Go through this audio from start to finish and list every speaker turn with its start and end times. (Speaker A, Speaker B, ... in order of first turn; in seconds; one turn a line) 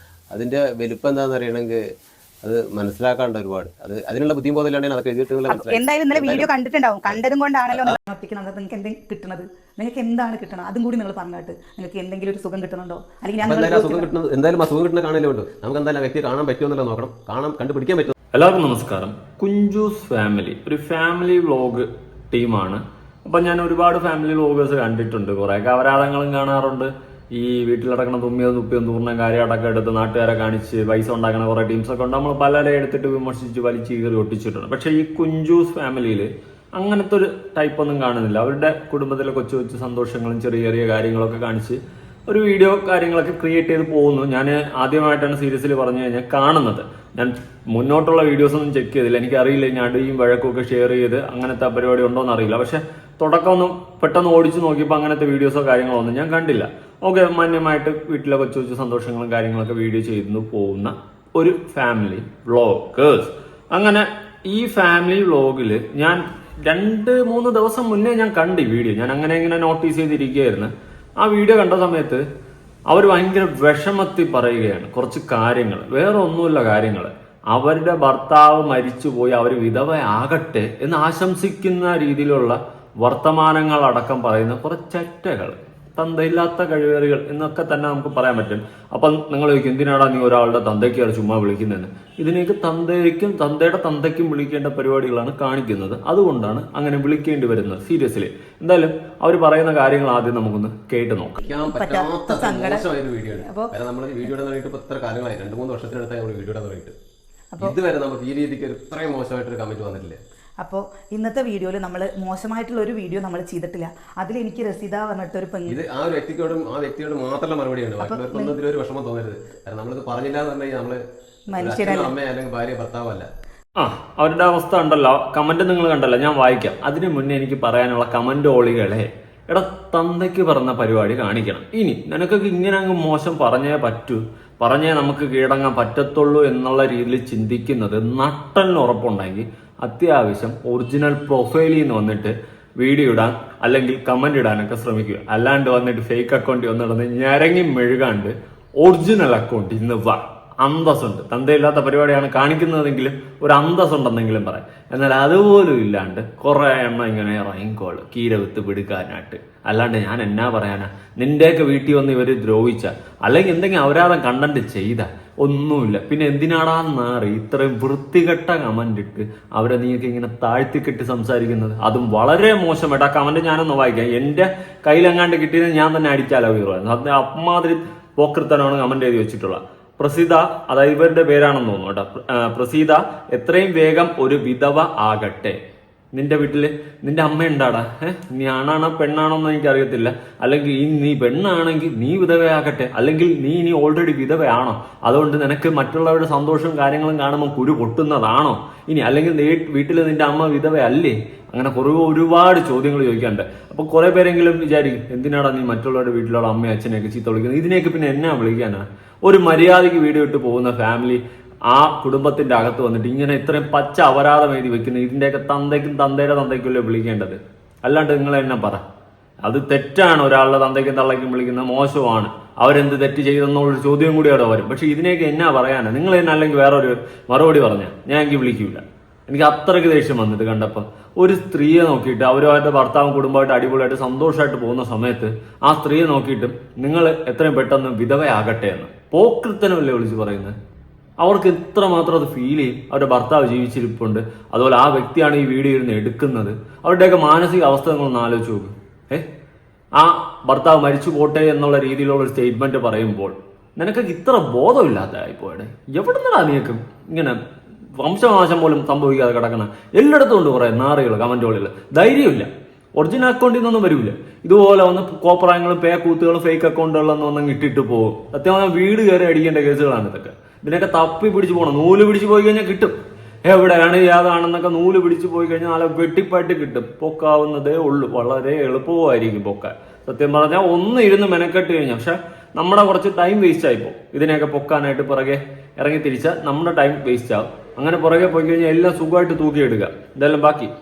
Speaker A: 0.3-1.8
Speaker A: 2.4-6.5
Speaker B: 5.5-14.1
Speaker A: 7.7-8.0
Speaker A: 13.4-18.1
Speaker C: 18.3-72.2
Speaker C: 72.9-101.4
Speaker A: 101.4-106.9
Speaker B: 101.7-102.9
Speaker B: 103.5-103.7
Speaker A: 107.6-110.2
Speaker B: 110.6-115.8
Speaker A: 115.7-121.0
Speaker B: 118.0-118.6
Speaker B: 121.5-122.1
Speaker A: 121.6-123.3
Speaker C: 123.8-185.6
Speaker C: 186.1-218.8
Speaker C: 219.4-240.6
Speaker C: 241.2-249.3
Speaker C: 250.0-257.4
Speaker C: 258.0-290.7